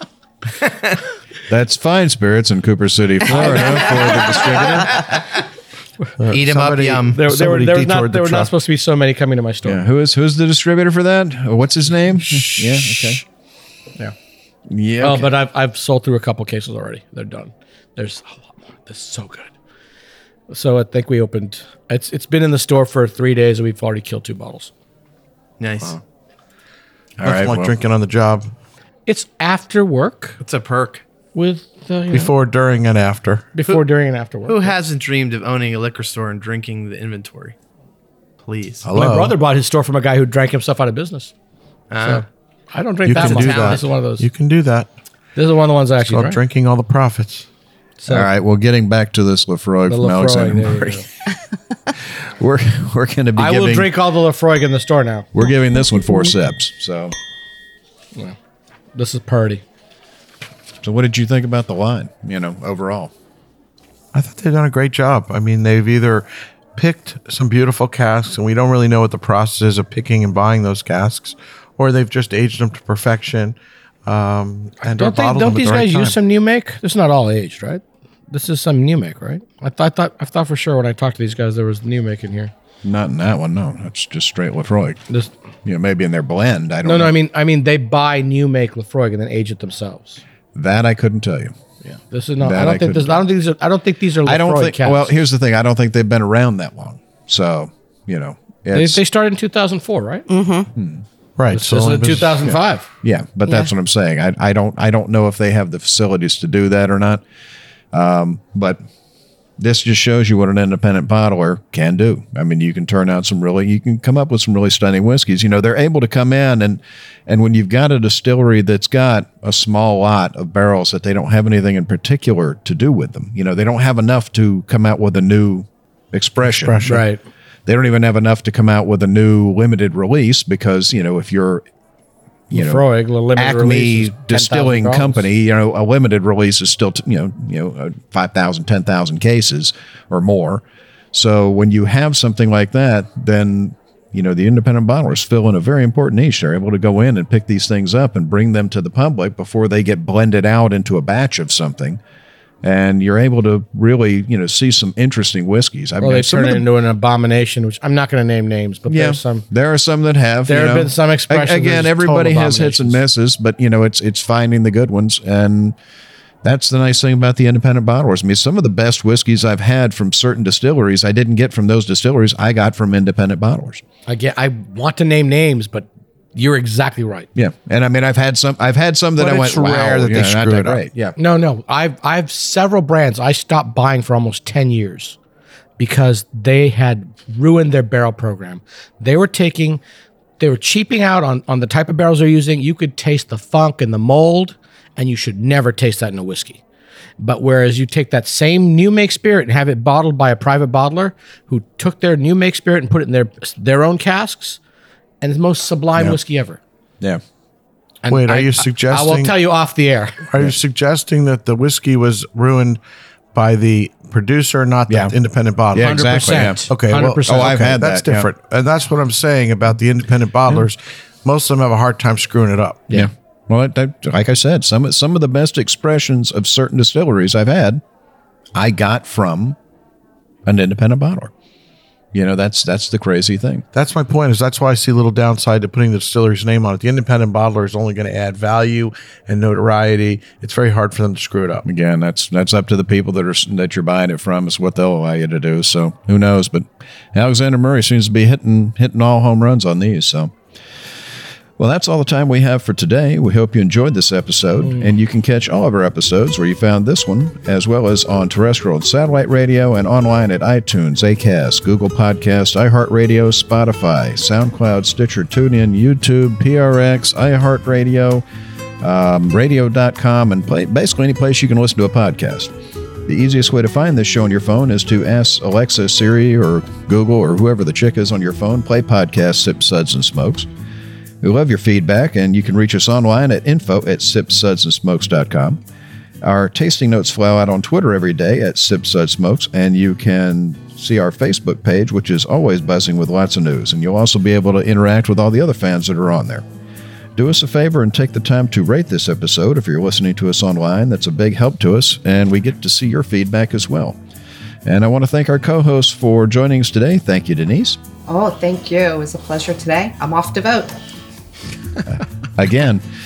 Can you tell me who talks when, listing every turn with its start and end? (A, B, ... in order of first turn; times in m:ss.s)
0:01.5-0:05.1 A
0:03.3-0:04.6 B
0:06.2-0:08.5 C
0:06.3-0:07.2 D
0:07.1-0:09.8 B
0:09.6-0:13.2 A
0:12.5-0:12.9 B
0:14.7-0:15.4 A
0:15.0-0:19.5 B
0:20.5-0:24.7 B
0:25.6-0:26.0 D
0:27.2-0:27.7 A
0:27.2-0:28.5 C
0:29.1-0:30.4 B
0:30.4-0:31.0 D
0:31.3-0:32.3 B
0:32.1-0:33.5 C
0:33.5-0:34.8 B
0:34.5-0:37.6 D
0:38.4-0:38.8 D
0:38.8-0:39.4 C
0:38.9-0:41.3 B
0:41.9-0:42.2 D
0:42.0-0:44.3 B
0:43.0-0:44.9 C
0:43.1-0:43.8 D
0:45.4-0:46.4 B
0:46.0-0:47.5 C
0:48.0-0:48.3 B
0:48.1-0:51.0 A
0:49.9-0:51.0 B
0:52.1-0:53.9 A
0:53.4-0:55.3 B
0:55.3-0:57.1 A
0:58.9-0:59.6 B
1:00.8-1:03.1 A
1:04.1-1:16.2 C
1:14.8-1:22.5 B
1:22.8-1:25.0 A
1:25.6-1:27.1 A
1:26.8-1:30.2 B
1:30.6-1:31.5 A
1:31.8-1:35.1 B
1:32.4-1:33.3 A
1:34.2-1:39.0 A
1:38.7-1:40.3 B
1:40.3-1:40.7 E
1:40.8-1:41.0 A
1:41.4-1:42.5 C
1:41.5-1:42.9 B
1:42.4-1:47.2 A
1:47.9-1:48.8 A
1:49.6-2:06.8 A
2:06.4-2:07.0 C
2:06.8-2:07.2 B
2:07.7-2:11.6 A
2:12.5-2:32.0 A
2:12.5-2:15.3 B
2:32.6-2:36.7 A
2:36.0-2:39.4 B
2:38.9-2:45.8 A
2:40.5-2:43.0 B
2:46.4-2:53.8 A
2:54.1-2:57.3 B
2:57.4-3:01.2 A
2:59.2-3:00.8 C
3:01.2-3:05.2 B
3:05.8-3:09.8 B
3:10.4-3:16.6 B
3:17.2-3:24.6 B
3:25.2-3:26.6 B
3:28.0-3:30.2 B
3:28.1-3:29.4 C
3:30.3-3:32.8 C
3:33.3-3:42.9 C
3:34.9-3:35.2 A
3:35.7-3:36.7 A
3:35.8-3:37.7 B
3:37.2-3:38.3 A
3:42.9-3:47.8 A
3:48.6-3:49.6 A
3:50.4-3:51.3 A
3:52.1-3:53.6 A
3:53.7-4:01.7 C
4:01.6-4:10.3 A
4:11.6-4:28.2 A
4:14.6-4:14.9 B
4:28.8-4:32.5 A
4:33.1-4:40.5 A
4:41.2-4:45.6 A
4:46.2-4:56.4 A
4:57.2-5:04.0 A
5:04.6-5:07.8 A
5:08.1-5:10.7 E
5:11.9-5:12.8 A